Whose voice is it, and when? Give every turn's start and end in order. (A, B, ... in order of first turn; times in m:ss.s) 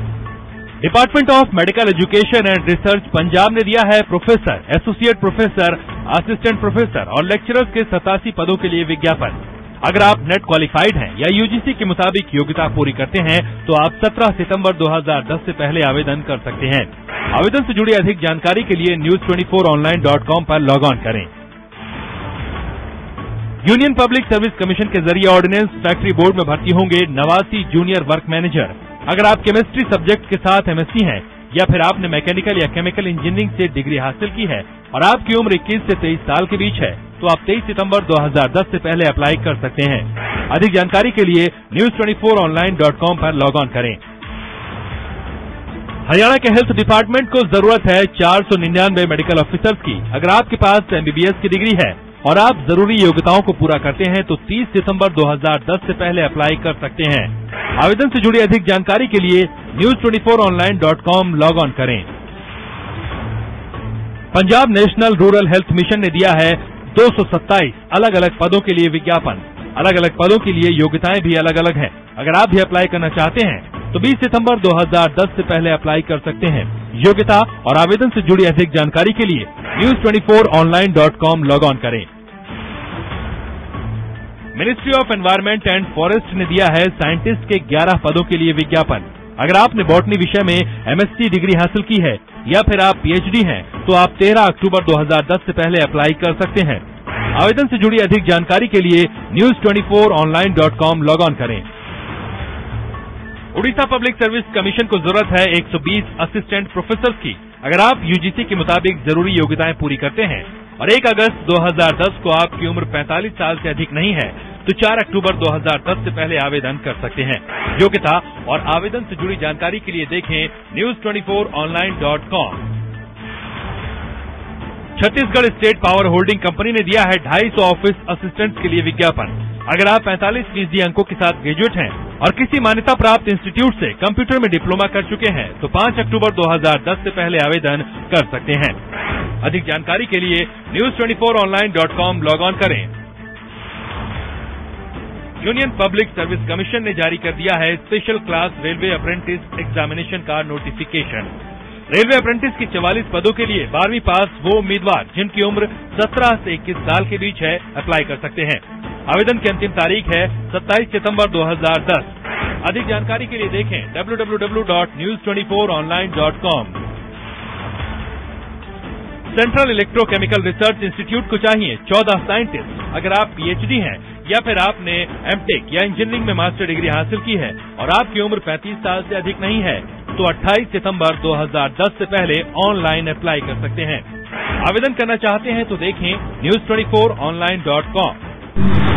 0:00.8-0:21.3 A
0:23.6-0:44.0 A
0:46.0-1:02.1 A
1:04.3-1:22.1 A
1:24.5-1:36.8 A
1:37.3-1:41.6 A
1:43.5-2:02.6 A
2:05.0-2:18.8 A
2:19.4-2:22.9 A
2:25.4-2:31.3 A
2:31.9-2:46.8 A
2:49.3-3:04.0 A
3:04.6-3:08.2 A